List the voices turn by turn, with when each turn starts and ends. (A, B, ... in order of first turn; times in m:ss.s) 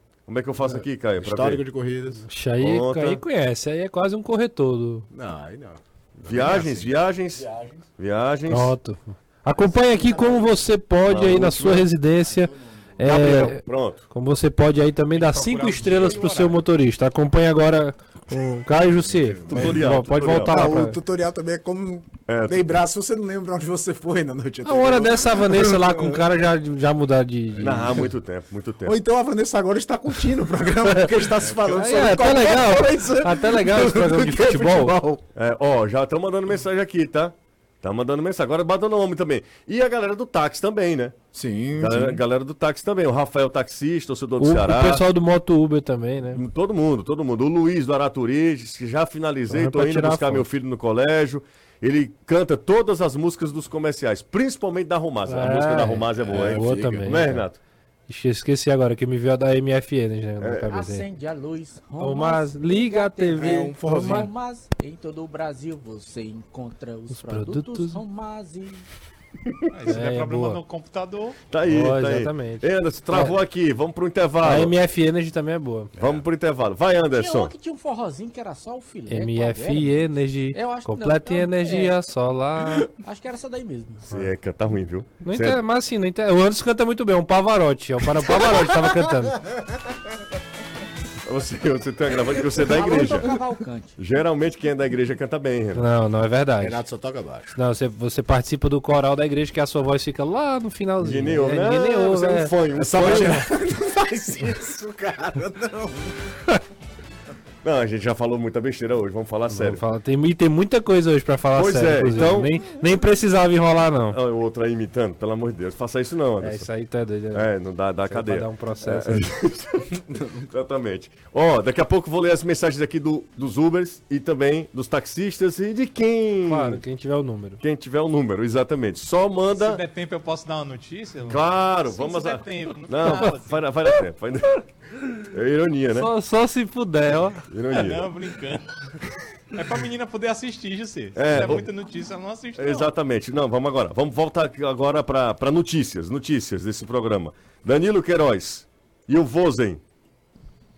0:00.3-0:01.6 A
0:00.6-0:02.3 B
0:02.3-0:05.1 C
0:02.6-0:03.2 A
0:05.1-0:07.7 B
0:06.2-0:08.8 A
0:08.5-0:21.0 C
0:11.1-0:11.9 A
0:13.0-0:14.1 A
0:15.1-0:16.6 D
0:19.5-0:20.8 A
0:19.5-0:26.2 B
0:22.3-0:22.7 A
0:24.6-0:28.1 C
0:27.6-0:29.0 A
0:28.8-0:35.2 B
0:31.1-0:35.0 C
0:35.4-0:41.2 A
0:41.3-0:42.2 B
0:41.8-0:45.1 A
0:44.4-0:46.4 C
0:46.3-0:57.6 A
0:49.5-0:50.4 C
0:55.3-0:57.5 C
0:58.1-1:01.1 C
1:00.4-1:00.7 A
1:00.7-1:08.8 E
1:02.0-1:04.3 C
1:03.4-1:04.3 B
1:07.1-1:08.0 C
1:09.7-1:11.4 D
1:09.9-1:10.6 C
1:11.5-1:14.7 A
1:11.6-1:13.4 C
1:14.4-1:15.9 C
1:16.0-1:17.5 A
1:17.2-1:22.0 E
1:19.1-1:22.9 C
1:22.9-1:24.1 E
1:24.1-1:25.6 A
1:25.2-1:29.5 C
1:28.3-1:28.6 A
1:31.2-1:33.4 A
1:32.5-1:34.0 E
1:34.0-1:35.9 A
1:35.8-1:36.8 C
1:36.6-1:37.6 B
1:37.6-1:43.3 C
1:41.0-1:43.5 A
1:42.8-1:46.4 B
1:47.6-1:49.8 A
1:49.5-1:54.2 C
1:51.5-1:52.6 A
1:54.1-1:56.7 A
1:56.4-1:57.5 C
1:57.3-2:06.8 A
1:58.1-1:59.3 C
2:06.4-2:07.6 C
2:07.6-2:09.8 A
2:09.5-2:13.6 D
2:11.3-2:14.6 A
2:15.2-2:16.1 A
2:16.0-2:17.5 C
2:17.5-2:18.1 A
2:17.7-2:18.7 D
2:19.5-2:22.9 D
2:21.2-2:21.7 A
2:22.6-2:29.8 A